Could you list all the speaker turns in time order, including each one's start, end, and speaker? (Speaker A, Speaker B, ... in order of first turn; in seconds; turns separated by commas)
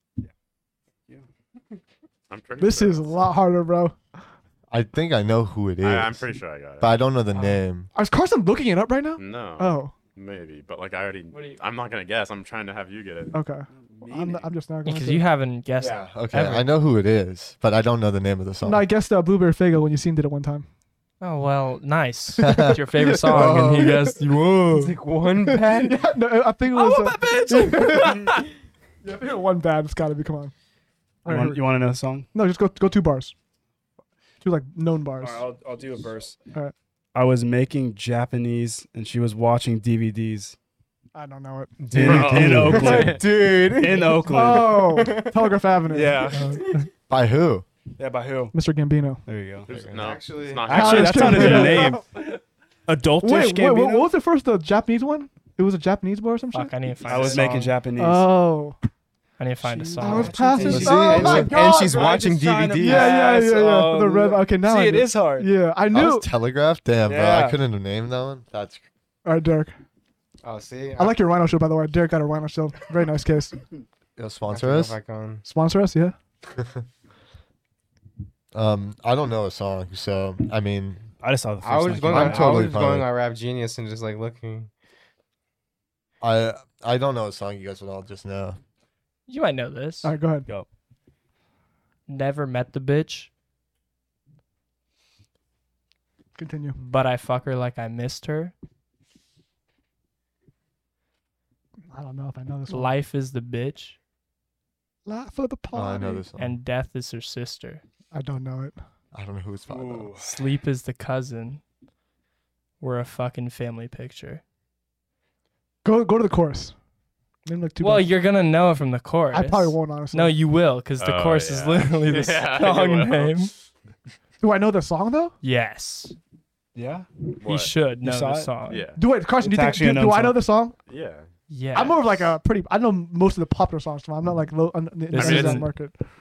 Speaker A: 2.3-3.2, Speaker B: 2.6-4.0, Speaker C: 4.7-6.3, Speaker A: 5.8-7.0, Speaker C: 6.8-7.9, Speaker B: 7.9-9.9, Speaker A: 9.2-13.3, Speaker D: 11.3-11.6, Speaker B: 13.3-15.3, Speaker E: 13.7-14.5, Speaker D: 14.8-16.7, Speaker C: 15.8-18.9, Speaker B: 18.6-20.7, Speaker D: 21.2-24.9, Speaker C: 22.4-24.2, Speaker B: 23.1-23.6, Speaker F: 24.7-26.0, Speaker B: 25.5-28.4, Speaker D: 26.8-28.3, Speaker E: 27.9-28.2, Speaker B: 29.0-30.5, Speaker B: 31.2-31.6, Speaker E: 31.2-32.3, Speaker B: 32.3-33.3, Speaker B: 34.4-35.5, Speaker E: 35.2-36.4, Speaker E: 37.1-40.6, Speaker B: 41.1-42.1, Speaker F: 41.8-45.6, Speaker E: 41.9-44.8, Speaker A: 42.0-43.2, Speaker B: 44.3-46.3, Speaker E: 45.9-46.6, Speaker D: 46.3-46.7, Speaker C: 47.1-47.6, Speaker E: 48.0-48.5, Speaker B: 48.5-49.2, Speaker E: 49.3-49.7, Speaker F: 49.7-51.6, Speaker A: 49.7-51.9, Speaker E: 50.7-52.1, Speaker B: 50.7-52.0, Speaker E: 52.9-54.1, Speaker B: 53.2-58.8, Speaker D: 56.5-57.8, Speaker E: 57.0-58.4, Speaker D: 59.4-60.7, Speaker E: 59.6-65.6, Speaker B: 60.0-62.0, Speaker F: 60.6-63.1, Speaker C: 60.6-61.5, Speaker B: 62.8-66.3, Speaker C: 65.9-68.8, Speaker E: 67.1-67.6, Speaker B: 69.2-69.8, Speaker F: 70.4-71.2, Speaker B: 71.0-73.6, Speaker C: 74.2-75.0, Speaker F: 74.5-75.4, Speaker B: 75.5-76.2, Speaker C: 78.5-81.0, Speaker E: 81.2-82.7, Speaker F: 81.6-84.7, Speaker C: 82.1-83.1, Speaker C: 86.2-88.6, Speaker D: 89.3-90.2, Speaker B: 90.0-90.5, Speaker D: 92.1-93.3, Speaker B: 96.4-96.8, Speaker D: 96.8-98.5, Speaker B: 101.9-102.9, Speaker D: 102.7-104.0, Speaker B: 105.1-106.2, Speaker C: 105.7-106.6, Speaker D: 106.4-107.8, Speaker B: 108.1-108.8, Speaker C: 109.1-110.1, Speaker E: 109.7-110.3, Speaker D: 110.2-111.6, Speaker D: 112.8-114.4, Speaker B: 115.8-116.8, Speaker B: 117.5-118.1, Speaker D: 117.8-123.5, Speaker B: 119.3-120.4, Speaker A: 121.0-123.6, Speaker B: 124.4-125.3, Speaker D: 125.4-126.2, Speaker E: 126.8-127.1, Speaker A: 127.4-127.7, Speaker D: 127.4-128.9, Speaker E: 128.0-128.6, Speaker A: 128.7-129.0, Speaker B: 129.0-130.8, Speaker E: 129.4-130.5, Speaker A: 130.9-131.3, Speaker D: 131.5-132.2, Speaker B: 131.7-135.9, Speaker D: 135.1-135.7, Speaker A: 135.1-135.7